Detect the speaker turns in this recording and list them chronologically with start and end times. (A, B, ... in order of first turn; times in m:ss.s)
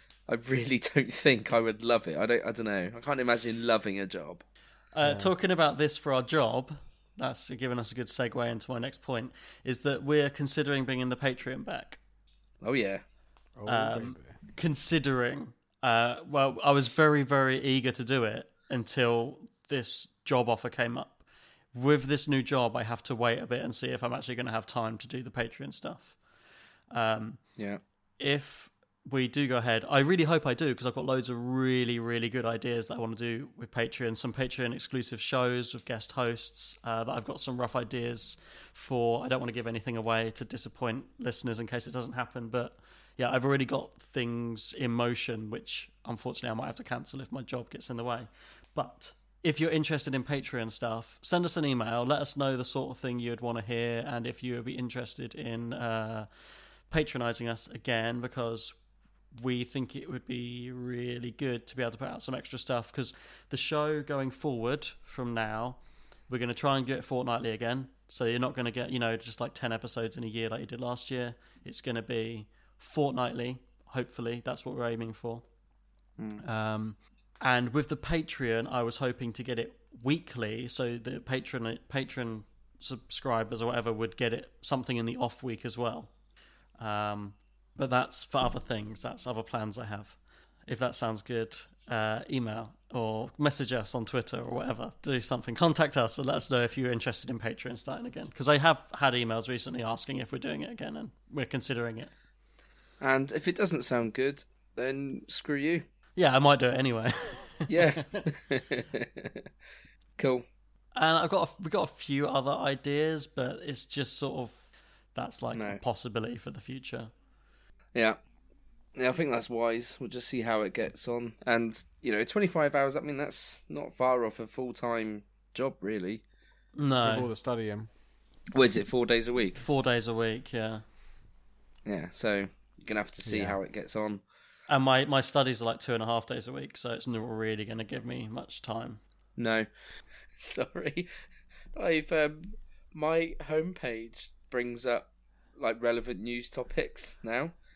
0:00.3-0:04.4 A
0:04.9-0:12.0 B
0:05.0-0:05.3 C
0:12.6-0:13.0 A
0:13.6-0:14.4 C
0:13.7-0:21.2 B
0:21.7-0:26.2 B
0:26.9-0:27.4 B
0:28.2-0:56.3 B
0:56.9-0:58.8 B
0:59.4-1:15.4 B
1:16.2-1:16.4 A
1:16.4-1:26.1 B
1:26.8-1:42.1 B
1:43.0-1:45.8 A
1:46.2-1:48.0 B
1:47.7-1:49.4 A
1:50.2-1:50.4 A
1:50.9-1:54.6 B
1:55.1-1:57.1 B
1:55.5-1:55.8 A
1:59.0-2:06.2 A
2:06.7-2:07.3 B
2:07.0-2:07.9 C
2:08.5-2:09.6 A
2:09.6-2:10.8 B
2:11.8-2:14.2 A
2:13.2-2:13.6 C
2:14.7-2:19.0 B
2:19.4-2:19.7 A
2:20.4-2:21.0 A
2:21.7-2:27.5 A